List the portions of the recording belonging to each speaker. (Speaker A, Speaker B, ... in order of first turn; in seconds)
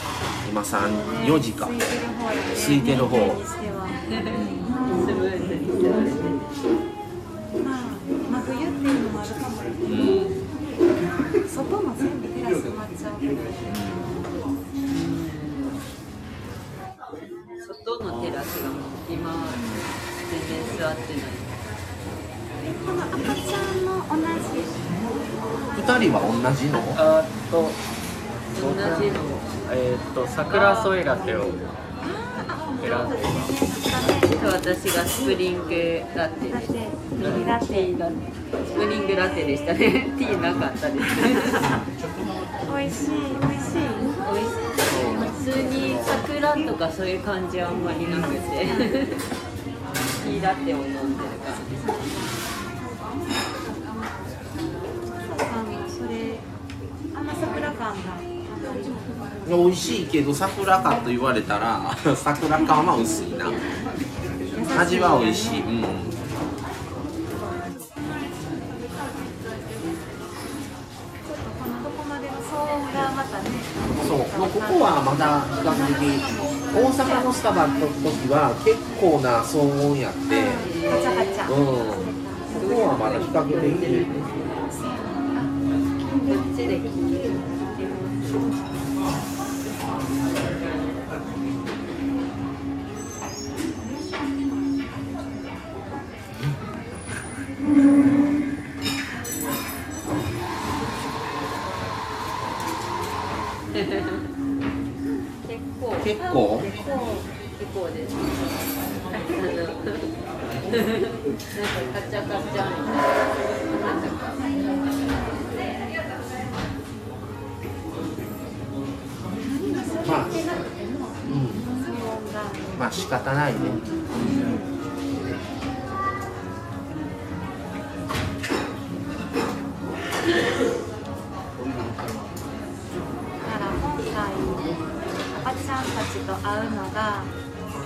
Speaker A: 0.5-1.8, 2.5-3.4, 9.8-10.4, 13.7-14.2, 25.8-27.0, 44.9-46.2, 59.5-63.6, 64.7-66.2, 74.0-80.7, 81.5-84.1, 106.0-106.7, 120.0-120.5, 121.3-121.6, 122.8-123.8
Speaker B: 0.8-5.2, 7.6-10.1, 11.5-13.8, 22.6-24.8, 32.0-34.4, 36.5-38.1, 38.7-39.7, 41.2-41.8, 42.7-44.2, 44.9-46.7, 48.7-48.9, 51.6-52.4, 55.1-56.5, 57.1-59.0, 64.5-65.7, 68.0-68.4, 71.2-75.0, 75.6-77.4, 80.3-82.7, 84.7-87.7, 106.6-107.2, 119.4-122.8, 124.2-124.7, 133.4-134.7, 135.3-137.3
Speaker C: 4.9-6.3, 14.9-15.8, 17.6-19.7, 20.2-21.6, 28.5-29.4, 30.5-31.1, 34.4-41.8, 44.2-49.2, 50.2-51.8, 80.6-81.5, 82.6-84.7, 86.3-88.5, 103.8-104.2, 105.4-108.5, 109.1-110.1, 110.7-114.4
Speaker D: 27.0-27.8, 28.6-29.1, 29.7-31.6, 32.8-33.3